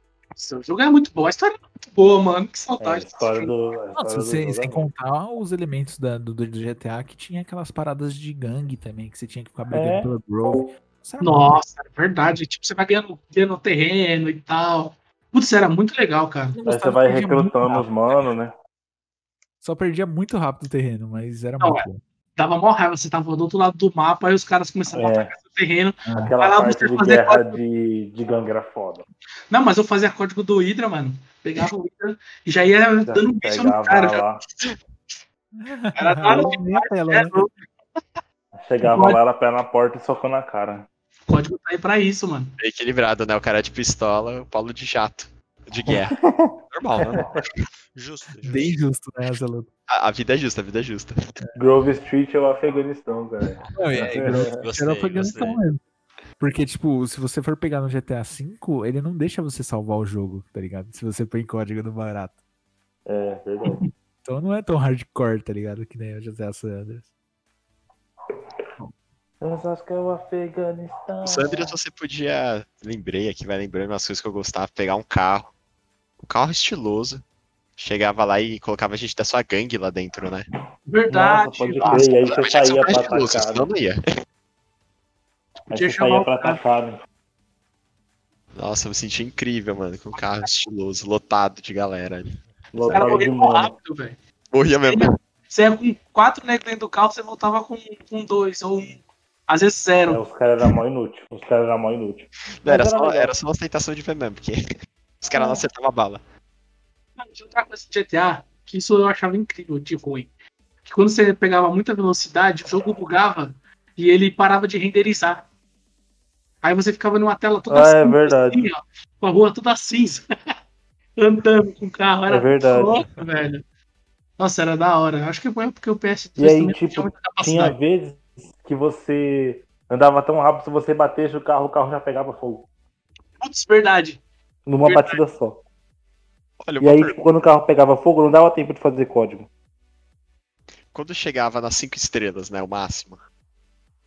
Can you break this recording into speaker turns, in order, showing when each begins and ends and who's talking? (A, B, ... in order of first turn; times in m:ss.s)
0:00.4-0:03.5 A
0:02.8-0:04.8 B
0:04.0-0:11.6 C
0:09.7-0:10.1 B
0:11.2-0:17.9 A
0:16.6-0:18.5 B
0:19.6-0:22.0 C
0:21.6-0:27.6 A
0:24.9-0:25.3 B
0:26.0-0:26.3 C
0:26.2-0:29.0 B
0:29.5-0:34.2 A
0:33.1-0:34.4 B
0:35.6-0:37.4 C
0:36.0-0:37.5 A
0:38.6-0:40.9 B
0:38.9-0:39.2 A
0:41.3-0:42.5 A
0:42.6-0:46.2 D
0:45.9-0:47.4 B
0:46.7-0:47.6 D
0:48.0-0:48.8 E
0:48.4-0:49.7 C
0:49.9-0:51.2 D
0:51.6-0:54.6 B
0:53.6-0:55.6 E
0:53.8-0:55.8 C
0:56.4-1:02.3 C
1:03.1-1:03.8 B
1:04.2-1:07.1 C
1:09.4-1:11.8 B
1:11.2-1:15.5 D
1:16.2-1:17.2 D
1:17.8-1:20.5 D
1:20.9-1:23.2 A
1:21.1-1:23.7 B
1:21.8-1:24.0 D
1:25.7-1:26.6 A
1:25.7-1:27.0 B
1:28.5-1:33.2 D
1:32.7-1:33.7 B
1:32.9-1:34.2 A
1:34.5-1:35.2 D
1:34.8-1:40.2 A
1:40.1-1:43.4 B
1:42.6-1:44.6 D
1:45.2-1:46.2 D
1:45.3-1:45.6 A
1:47.2-1:50.3 A
1:50.8-1:55.5 A
1:56.6-2:00.3 A
1:57.7-1:58.7 B
2:01.2-2:03.6 A
2:02.3-2:03.0 B
2:04.4-2:07.8 A
2:06.4-2:12.7 B
2:13.4-2:14.2 A
2:14.7-2:15.6 B
2:14.8-2:15.2 A
2:16.6-2:17.2 D
2:16.8-2:19.5 B
2:20.9-2:23.2 D